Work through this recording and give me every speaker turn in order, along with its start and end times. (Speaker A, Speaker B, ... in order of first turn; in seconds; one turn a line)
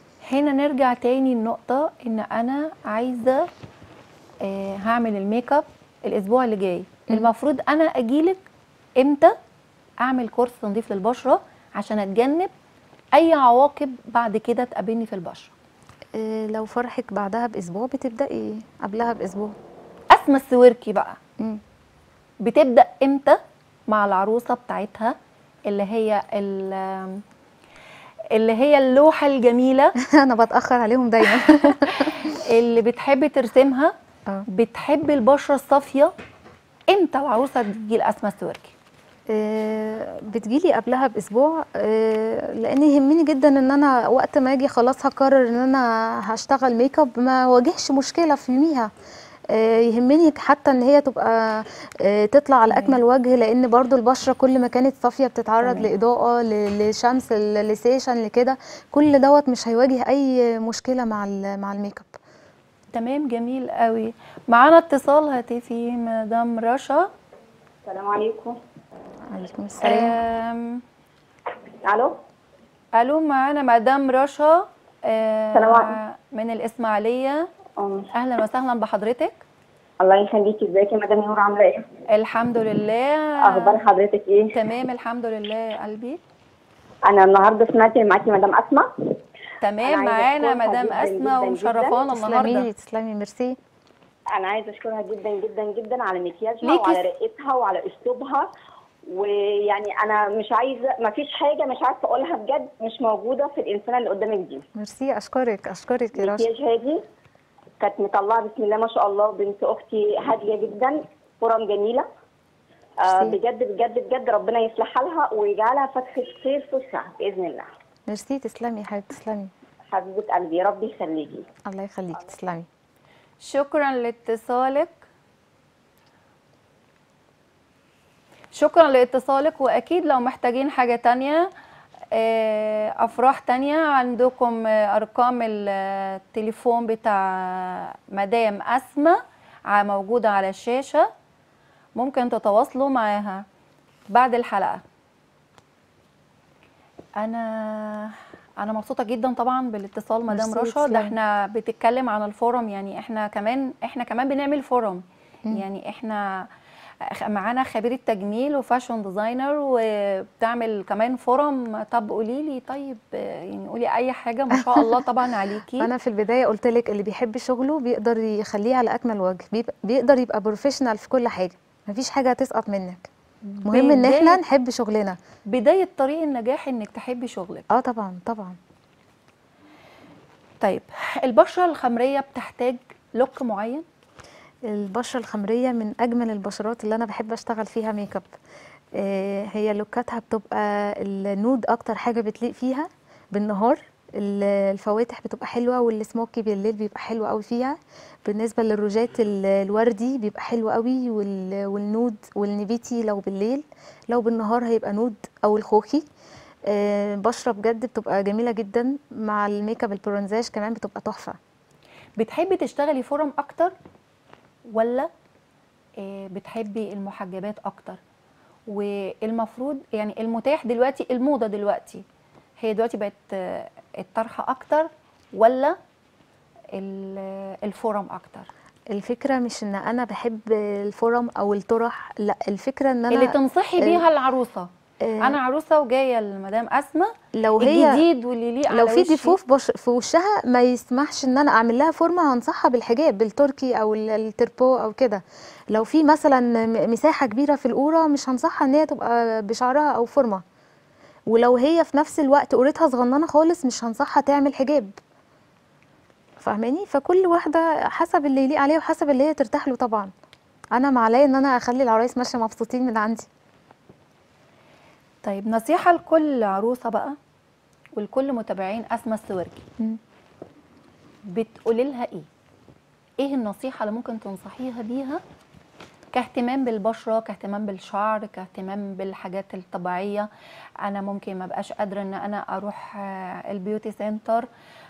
Speaker A: 0.3-3.5
Speaker A: 4.4-8.4
Speaker A: 9.0-9.3
Speaker A: 10.0-12.5
Speaker A: 13.1-15.5
Speaker B: 16.1-19.5
Speaker A: 20.1-21.2
Speaker A: 22.4-25.1
Speaker A: 25.7-27.2
Speaker A: 28.3-29.9
Speaker B: 30.0-32.4
Speaker A: 31.3-33.9
Speaker A: 34.5-36.1
Speaker A: 36.9-38.7
Speaker B: 39.3-48.9
Speaker B: 49.5-62.1
Speaker A: 52.7-53.0
Speaker A: 55.6-55.9
Speaker A: 62.9-67.1
Speaker C: 67.9-68.6
Speaker B: 69.3-70.1
Speaker A: 69.8-70.8
Speaker C: 71.8-72.2
Speaker A: 73.0-77.5
Speaker C: 75.5-76.0
Speaker C: 77.8-78.1
Speaker A: 78.1-79.4
Speaker C: 80.0-81.9
Speaker A: 82.1-83.8
Speaker C: 83.4-84.6
Speaker A: 84.5-86.2
Speaker C: 87.1-89.1
Speaker A: 89.6-92.7
Speaker C: 89.8-92.0
Speaker B: 92.1-93.6
Speaker C: 94.3-98.5
Speaker A: 96.6-97.0
Speaker C: 99.1-104.6
Speaker B: 104.8-106.5
Speaker C: 106.1-107.0
Speaker C: 107.8-112.1
Speaker C: 113.0-117.7
Speaker B: 113.1-113.4
Speaker B: 118.1-119.5
Speaker C: 119.9-121.5
Speaker B: 121.7-122.7
Speaker A: 123.4-125.0
Speaker A: 128.5-131.5
Speaker A: 132.1-141.1
Speaker A: 142.0-143.4
Speaker A: 144.1-144.8
Speaker A: 147.2-156.5
Speaker B: 150.3-151.1
Speaker A: 157.1-165.9
Speaker B: 164.5-165.0
Speaker B: 165.8-173.1
Speaker A: 173.5-174.4
Speaker B: 173.7-175.2
Speaker A: 175.5-177.7
Speaker B: 177.7-178.6
Speaker A: 180.6-183.8
Speaker B: 184.7-188.3
Speaker B: 188.9-206.0
Speaker B: 206.7-211.4
Speaker A: 212.2-213.7
Speaker A: 214.7-215.1
Speaker A: 216.0-218.0
Speaker A: 218.7-222.0
Speaker A: 222.6-225.8
Speaker A: 226.7-228.5
Speaker B: 228.9-234.0
Speaker A: 233.1-234.7
Speaker B: 235.0-235.4
Speaker A: 235.2-239.4
Speaker B: 237.3-238.0
Speaker B: 238.7-250.4
Speaker B: 251.3-254.9
Speaker B: 256.4-260.1
Speaker B: 260.7-263.3
Speaker A: 265.2-267.2
Speaker A: 268.0-269.6
Speaker A: 271.3-272.3
Speaker A: 273.2-275.2
Speaker A: 276.1-280.3
Speaker A: 280.8-284.5